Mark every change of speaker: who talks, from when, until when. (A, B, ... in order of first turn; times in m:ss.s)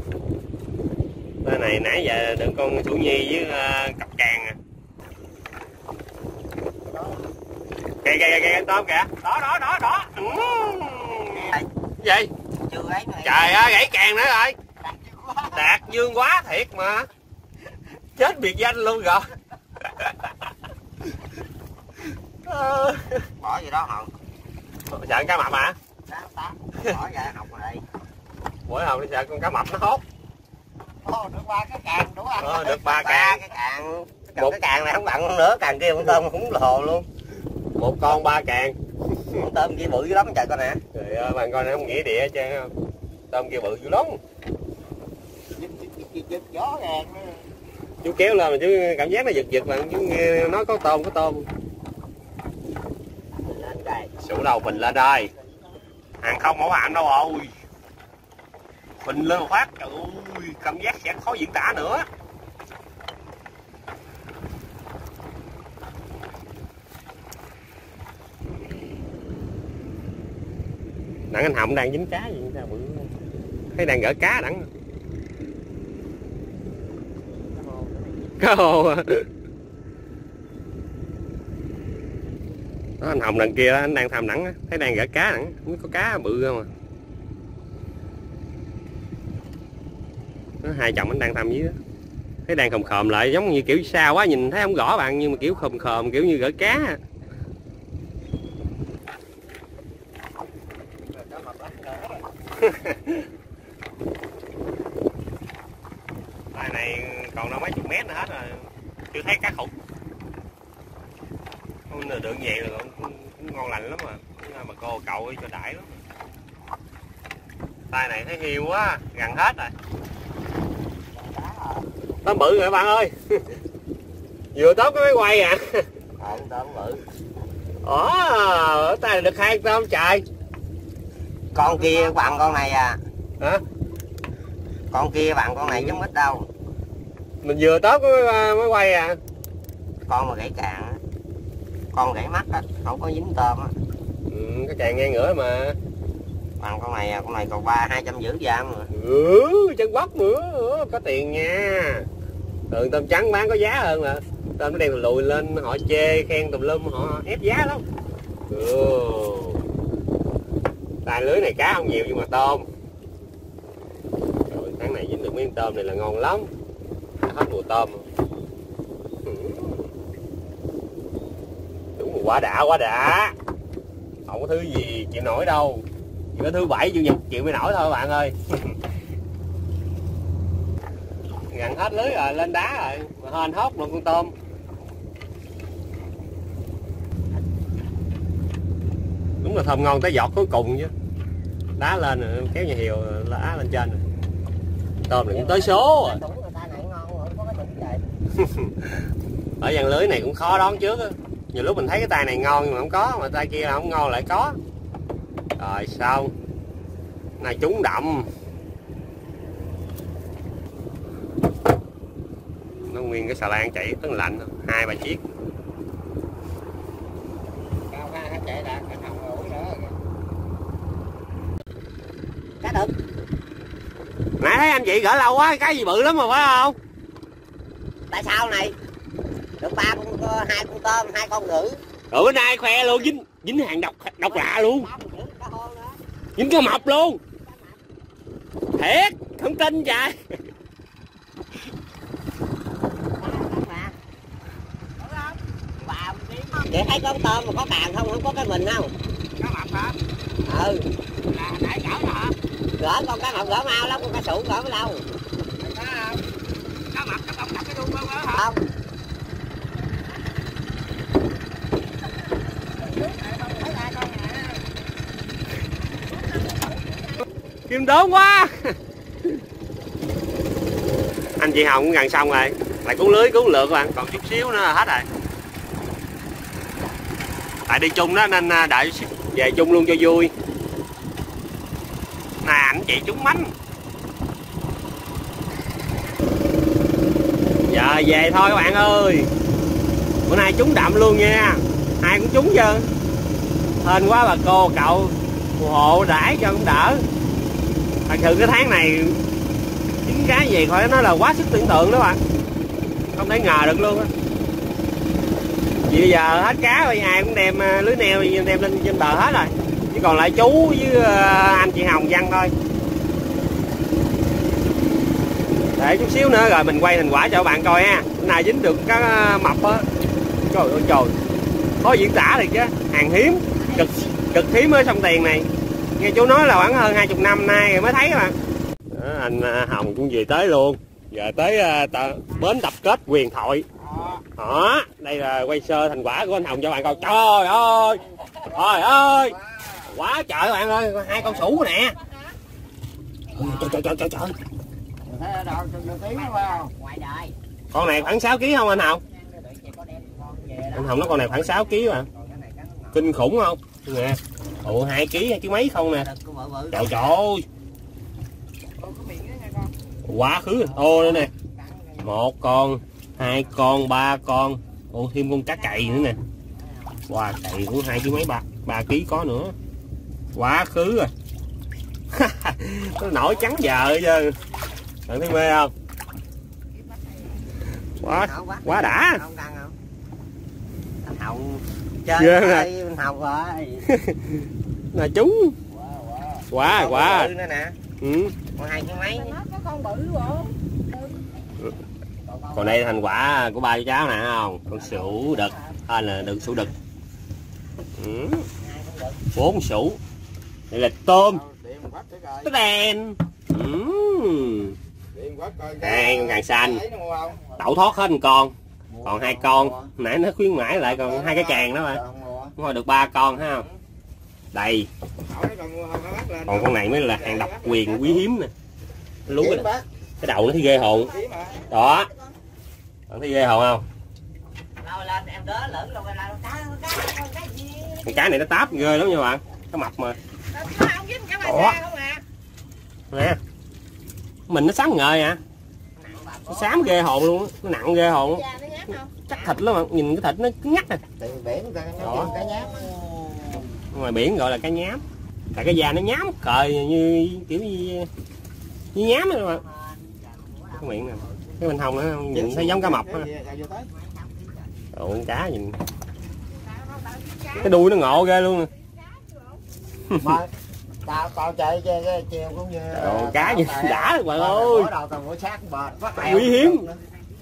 0:01.4-0:04.6 A
0:06.9-0:07.2 B
0:08.0-0:12.3 A
0:11.2-0:11.7 C
0:12.7-0:13.8 C
0:13.2-0:14.6 A
0:14.9-0:15.6 B
0:15.5-0:17.1 A
0:18.2-0:19.3 A
0:19.8-0:20.3 A
0:22.4-0:23.3 A
0:23.4-0:24.1 C
0:24.9-0:25.8 A
0:26.1-0:27.8 C
0:28.7-0:30.0 A
0:31.0-0:33.0 B
0:32.4-0:33.4 A
0:32.8-0:37.1 C
0:37.8-0:38.8 A
0:39.3-0:40.8 C
0:40.9-0:42.7 A
0:43.3-0:44.2 A
0:45.6-0:47.4 B
0:48.0-0:51.5 A
0:53.4-0:54.2 C
0:54.2-0:55.3 A
0:55.1-0:55.6 B
0:56.2-0:57.5 A
0:59.0-1:02.1 A
1:11.3-1:13.1 A
1:13.7-1:14.7 A
1:17.6-1:18.0 B
1:18.4-1:19.3 A
1:23.0-1:26.7 A
1:30.6-1:31.8 A
1:32.5-1:37.0 A
1:41.1-1:42.2 B
1:42.6-1:43.3 A
1:46.5-1:49.7 A
1:51.9-1:56.0 A
1:57.9-1:59.7 A
2:01.3-2:01.8 C
2:02.2-2:03.5 A
2:04.5-2:05.9 A
2:06.2-2:07.0 C
2:07.8-2:10.2 A
2:11.6-2:13.0 C
2:11.6-2:11.9 A
2:14.9-2:16.5 C
2:15.6-2:16.0 A
2:17.4-2:19.2 A
2:20.1-2:21.0 C
2:21.9-2:23.8 C
2:24.3-2:25.8 A
2:26.6-2:28.9 C
2:28.9-2:32.1 A
2:32.7-2:37.8 A
2:38.5-2:39.6 A
2:41.0-2:42.7 A
2:44.5-2:46.5 A
2:47.2-2:48.0 A
2:49.2-2:49.9 A
2:52.0-2:53.4 A
2:54.3-2:58.8 A
3:01.5-3:04.3 A
3:09.4-3:10.9 A
3:11.8-3:14.0 A
3:15.1-3:16.2 A
3:15.2-3:18.1 C
3:18.4-3:19.0 A
3:19.6-3:24.6 A
3:25.6-3:26.3 A
3:27.4-3:28.3 A
3:32.9-3:35.2 A
3:37.9-3:40.0 B
3:42.6-3:42.9 C
3:44.4-3:46.8 A
3:48.1-3:48.8 C
3:49.6-3:51.8 C
3:52.1-3:54.9 A
3:54.3-3:56.0 C
3:56.4-3:57.2 A
3:57.5-3:57.8 C
3:58.8-4:00.2 A
4:03.2-4:04.0 C
4:05.0-4:05.4 B
4:05.8-4:09.0 C
4:09.4-4:10.0 B
4:10.4-4:10.9 C
4:11.3-4:12.3 B
4:12.8-4:15.1 C
4:15.6-4:16.2 B
4:17.0-4:18.2 B
4:18.1-4:18.6 C
4:22.8-4:24.6 B
4:27.7-4:29.4 A
4:31.4-4:35.1 A
4:37.7-4:40.3 A
4:42.4-4:43.5 A
4:47.7-4:49.3 A
4:50.3-4:52.9 A
4:53.8-4:57.0 A
4:58.1-4:59.2 A
5:00.0-5:02.2 A
5:03.2-5:04.1 A
5:05.9-5:12.5 A
5:15.8-5:19.9 A
5:20.5-5:21.2 A
5:21.8-5:28.4 A
5:28.9-5:33.7 A
5:33.9-5:34.2 B
5:34.4-5:42.0 A
5:39.6-5:39.9 B
5:41.2-5:41.5 B
5:43.4-5:44.4 A
5:45.0-5:46.7 B
5:46.1-5:47.4 C
5:47.7-5:49.0 A
5:49.0-5:53.1 C
5:50.8-5:52.1 A
5:52.9-5:56.1 A
5:56.0-5:57.1 C
5:56.7-5:57.4 A
5:58.8-5:59.7 B
6:00.0-6:01.3 A
6:02.0-6:06.2 A
6:07.1-6:09.6 A
6:10.3-6:11.1 A
6:12.1-6:14.4 A
6:15.1-6:15.7 A
6:18.0-6:19.2 A
6:18.1-6:19.8 C
6:21.0-6:23.9 C
6:22.2-6:22.7 A
6:23.9-6:25.6 A
6:25.7-6:26.4 B
6:26.5-6:27.3 A
6:26.6-6:27.8 C
6:28.0-6:28.4 A
6:28.6-6:29.4 C
6:29.0-6:30.6 B
6:32.3-6:33.0 C
6:32.6-6:36.7 A
6:34.7-6:35.8 C
6:38.0-6:38.5 A
6:38.6-6:39.2 C
6:39.3-6:40.0 A
6:40.7-6:41.5 A
6:41.6-6:42.4 B
6:42.4-6:44.8 A
6:45.2-6:47.6 B
6:45.8-6:46.9 A
6:47.6-6:52.0 A
6:48.9-6:49.9 B
6:50.9-6:52.5 B
6:52.6-6:53.7 A
6:54.5-6:54.9 A
6:55.3-6:56.5 B
6:56.5-6:58.5 A
6:59.3-6:59.7 A
6:59.3-6:59.8 B
7:00.2-7:01.2 A
7:01.1-7:01.6 B
7:01.7-7:02.1 A
7:03.1-7:03.8 A
7:04.8-7:08.6 C
7:08.1-7:10.2 A
7:10.6-7:12.0 B
7:11.4-7:11.8 A
7:11.5-7:12.2 C
7:13.1-7:13.4 A
7:14.5-7:15.4 A
7:16.0-7:16.9 C
7:16.5-7:18.5 A
7:18.4-7:19.1 B
7:19.2-7:21.0 A
7:21.2-7:23.7 B
7:22.0-7:22.7 A
7:23.9-7:25.0 A
7:25.6-7:28.1 A
7:28.9-7:29.6 A
7:29.6-7:31.7 C
7:30.8-7:33.3 A
7:32.5-7:33.8 B
7:33.8-7:34.7 C
7:34.9-7:35.8 A
7:37.6-7:38.7 A
7:40.1-7:40.4 A
7:40.2-7:40.5 B
7:41.0-7:47.0 B
7:42.9-7:44.9 A
7:46.2-7:46.9 A